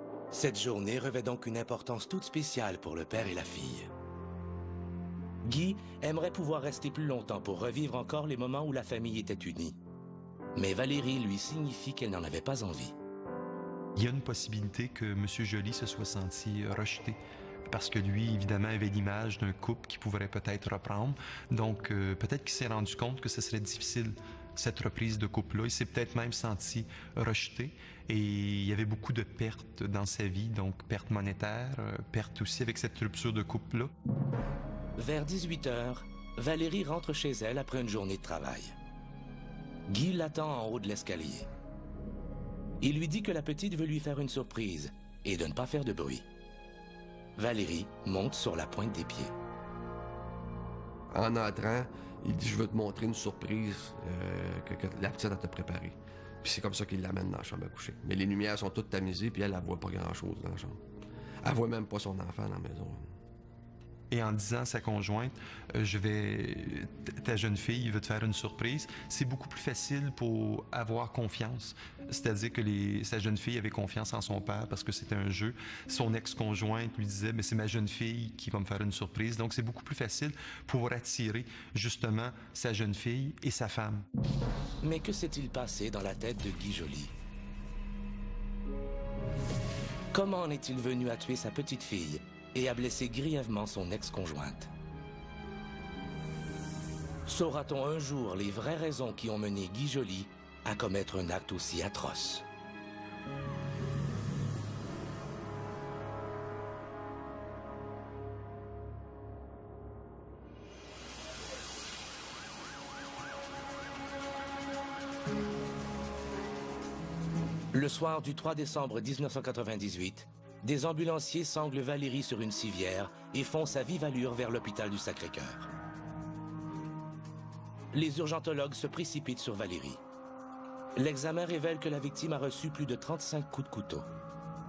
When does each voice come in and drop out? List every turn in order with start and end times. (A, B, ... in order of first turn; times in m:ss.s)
0:00.3-0:03.9 A
0:05.4-0:09.8 A
0:10.5-0:13.0 A
0:14.0-0:17.2 B
0:17.7-0:33.9 B
0:35.0-0:38.8 A
0:39.9-0:41.5 A
0:42.8-0:46.2 A
0:47.4-0:49.4 A
0:51.1-1:00.8 C
1:01.4-1:03.0 C
1:04.1-1:24.0 B
1:24.8-1:27.1 A
1:30.1-1:34.7 A
1:37.3-1:42.4 A
1:57.7-2:05.7 A
2:07.9-2:10.0 A
2:11.0-2:14.1 A